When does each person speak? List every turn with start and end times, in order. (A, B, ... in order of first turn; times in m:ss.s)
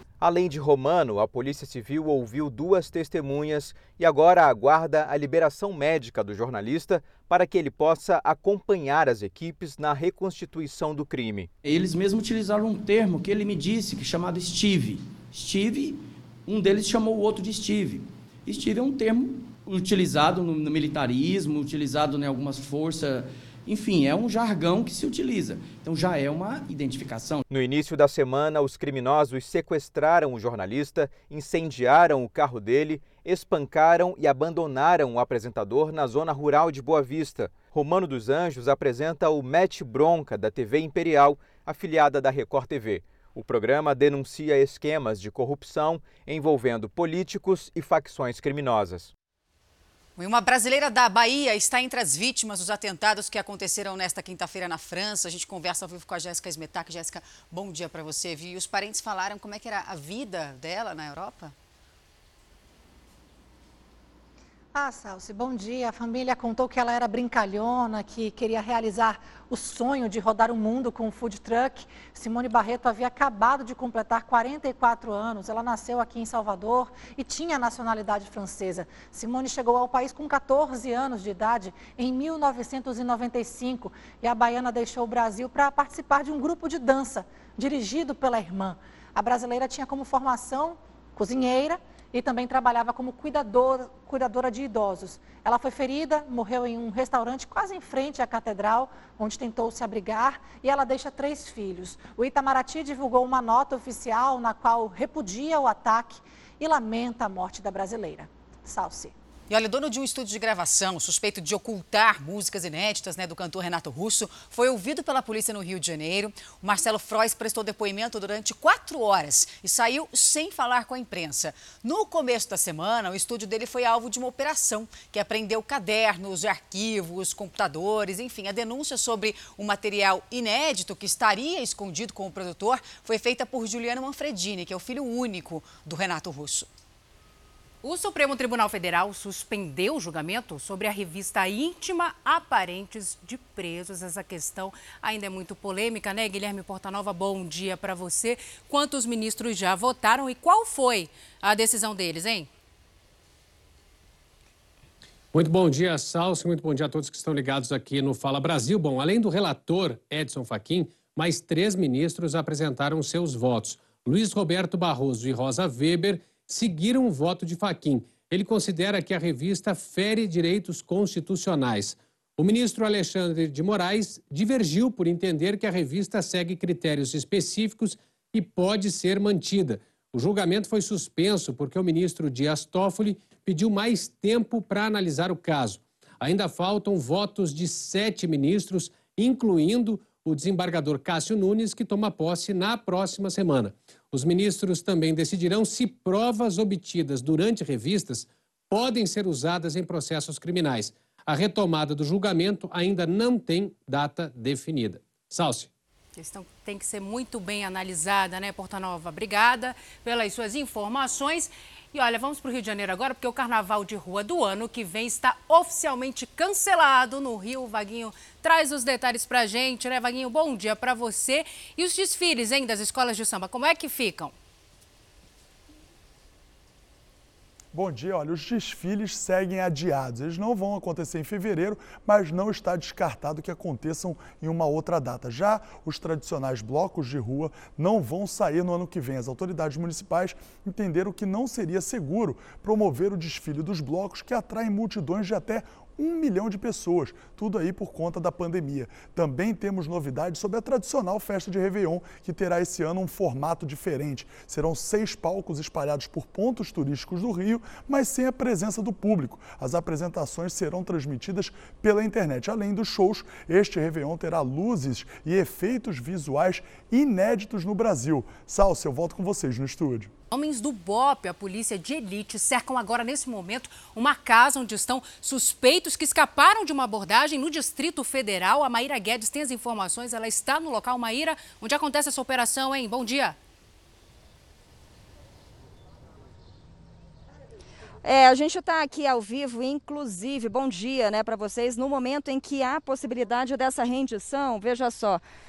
0:00.2-0:11.5 A
0:11.6-0:27.4 B
0:27.5-0:49.1 A
0:50.2-1:01.5 C
1:04.7-1:49.1 D
1:49.5-2:16.7 C
2:17.8-2:32.5 E
2:35.3-3:25.7 F
3:26.2-3:44.3 E
3:47.7-4:30.1 G
4:30.3-4:43.4 E
4:48.0-4:55.2 H